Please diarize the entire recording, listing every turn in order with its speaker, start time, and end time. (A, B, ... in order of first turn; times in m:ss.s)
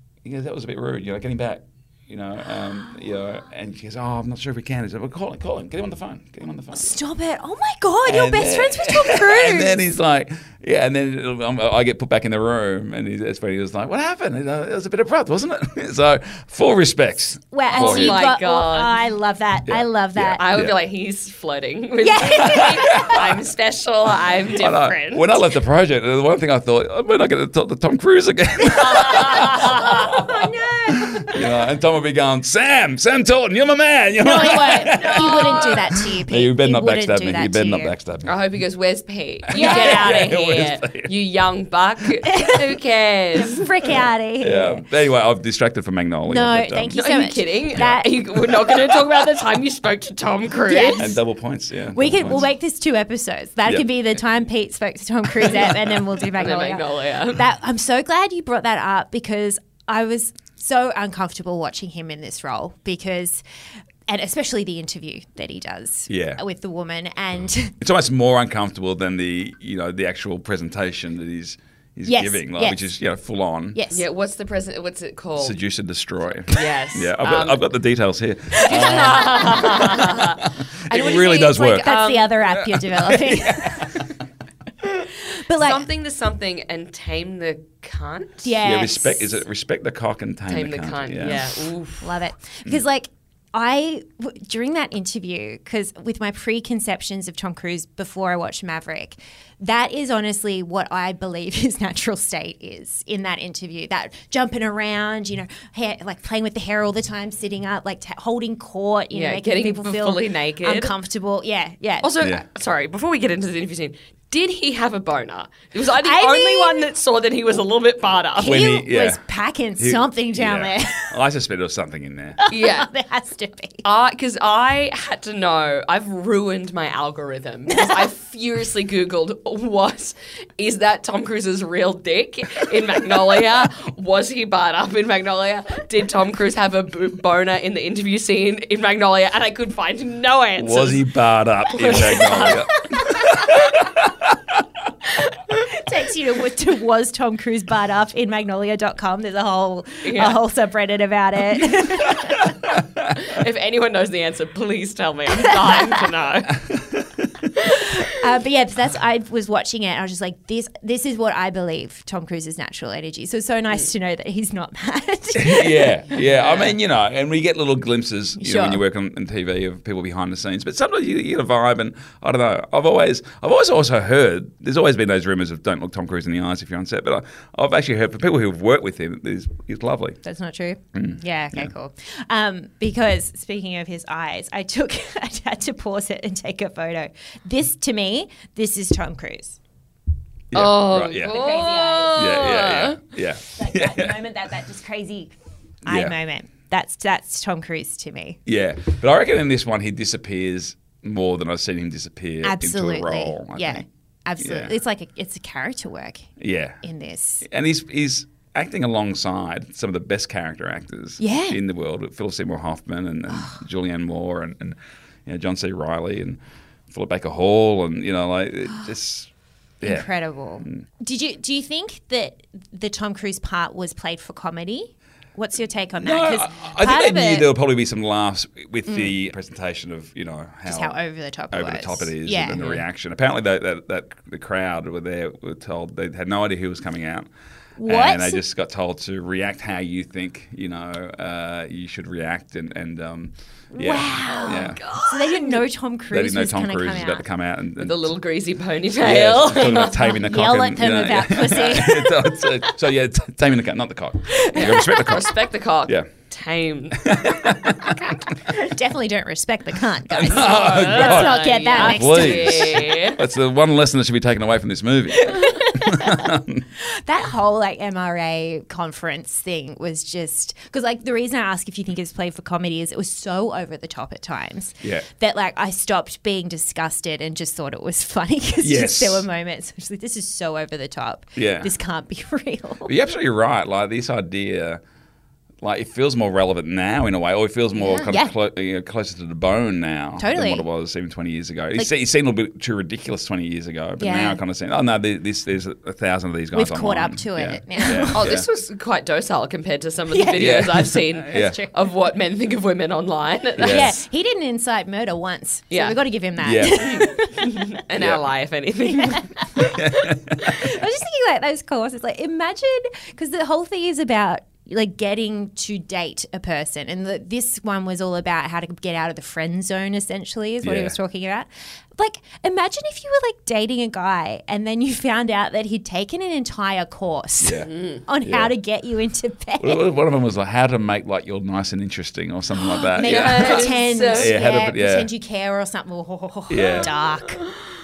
0:00.2-0:07.0 A
0:06.8-0:09.8 B
0:08.1-0:18.2 A
0:17.5-0:20.4 B
0:17.7-0:19.1 C
0:19.7-0:20.8 A
0:20.4-0:25.4 C
0:22.0-0:23.2 B
0:22.3-0:23.2 A
0:24.6-0:38.4 A
0:28.9-0:30.0 C
0:30.1-0:31.4 B
0:34.2-0:37.9 B
0:34.6-0:35.8 C
0:38.3-0:43.6 C
0:39.5-0:41.1 A
0:39.5-0:40.2 B
0:42.3-0:42.6 B
0:43.4-0:44.8 B
0:44.4-0:47.0 A
0:46.3-0:48.1 B
0:46.9-0:51.1 C
0:47.7-0:48.9 A
0:50.7-0:51.1 B
0:51.0-0:52.5 A
0:52.0-1:03.4 B
0:56.4-0:57.4 C
1:04.1-1:07.8 B
1:06.1-1:06.4 A
1:07.8-1:13.8 A
1:12.1-1:12.9 B
1:13.7-1:14.0 B
1:13.9-1:15.6 C
1:15.4-1:22.0 A
1:16.5-1:17.6 C
1:18.6-1:20.4 C
1:18.8-1:19.4 B
1:20.9-1:24.0 B
1:20.9-1:22.3 C
1:22.5-1:24.1 A
1:25.4-1:25.8 B
1:25.5-1:28.5 C
1:28.4-1:29.4 B
1:28.6-1:31.6 A
1:30.5-1:32.2 C
1:32.0-1:52.1 B
1:49.1-1:50.9 C
1:52.0-1:58.6 C
1:56.0-1:56.9 B
1:58.4-2:01.1 B
1:58.4-1:59.2 A
1:59.8-2:02.4 A
2:02.4-2:03.8 B
2:02.5-2:02.9 C
2:03.8-2:21.1 C
2:20.6-2:24.6 A
2:21.7-2:22.7 C
2:25.7-2:32.5 B
2:30.0-2:30.4 C
2:33.2-2:36.6 C
2:36.7-2:37.2 A
2:38.0-2:46.2 B
2:45.4-3:00.2 A
2:46.2-2:46.7 C
2:48.4-2:48.8 B
3:00.2-3:09.6 B
3:01.0-3:01.7 A
3:10.5-3:11.4 A
3:10.5-3:13.0 C
3:11.2-3:12.2 B
3:12.1-3:14.2 A
3:13.6-3:15.3 B
3:15.9-3:16.2 A
3:15.9-3:18.4 B
3:18.5-3:23.9 A
3:22.4-3:26.3 B
3:24.4-3:24.7 A
3:26.4-3:26.8 A
3:26.8-3:27.4 B
3:27.4-3:36.4 A
3:31.2-3:31.6 B
3:33.3-3:33.6 B
3:36.9-3:39.3 A
3:39.8-3:40.1 A
3:39.8-3:47.5 B
3:46.0-3:51.0 A
3:48.9-3:49.1 B
3:50.7-3:52.8 B
3:51.5-3:57.3 A
3:57.8-3:58.4 B
3:57.9-4:04.8 A
4:03.7-4:07.2 B
4:04.2-4:05.6 C
4:06.1-4:08.1 A
4:07.8-4:10.2 C
4:09.0-4:16.1 A
4:10.1-4:12.2 B
4:14.3-4:15.0 B
4:14.6-4:17.1 C
4:17.1-4:18.0 A
4:18.5-4:22.9 B
4:20.1-4:26.6 A
4:20.3-4:23.2 C
4:25.2-4:26.3 B
4:26.8-4:42.9 B
4:38.6-4:39.3 A
4:41.4-4:41.7 A
4:42.9-4:44.8 A
4:45.6-4:58.5 A
4:47.8-4:48.3 B
4:50.2-4:50.6 B
4:54.0-4:54.4 B
4:56.5-4:58.2 B
4:58.1-5:03.9 C
5:00.1-5:01.7 B
5:00.4-5:01.6 A
5:03.6-5:04.0 A
5:03.6-5:07.6 B
5:05.7-5:06.0 C
5:06.4-5:07.1 A
5:06.7-5:09.7 C
5:08.0-5:08.2 A
5:09.0-5:09.8 B
5:09.6-5:10.5 A
5:10.4-5:29.8 B
5:20.6-5:21.0 A
5:27.4-5:27.7 A
5:27.7-5:28.0 C
5:28.2-5:28.5 A
5:29.6-5:35.1 A
5:32.9-5:37.4 B
5:33.0-5:34.3 C
5:36.5-5:36.9 A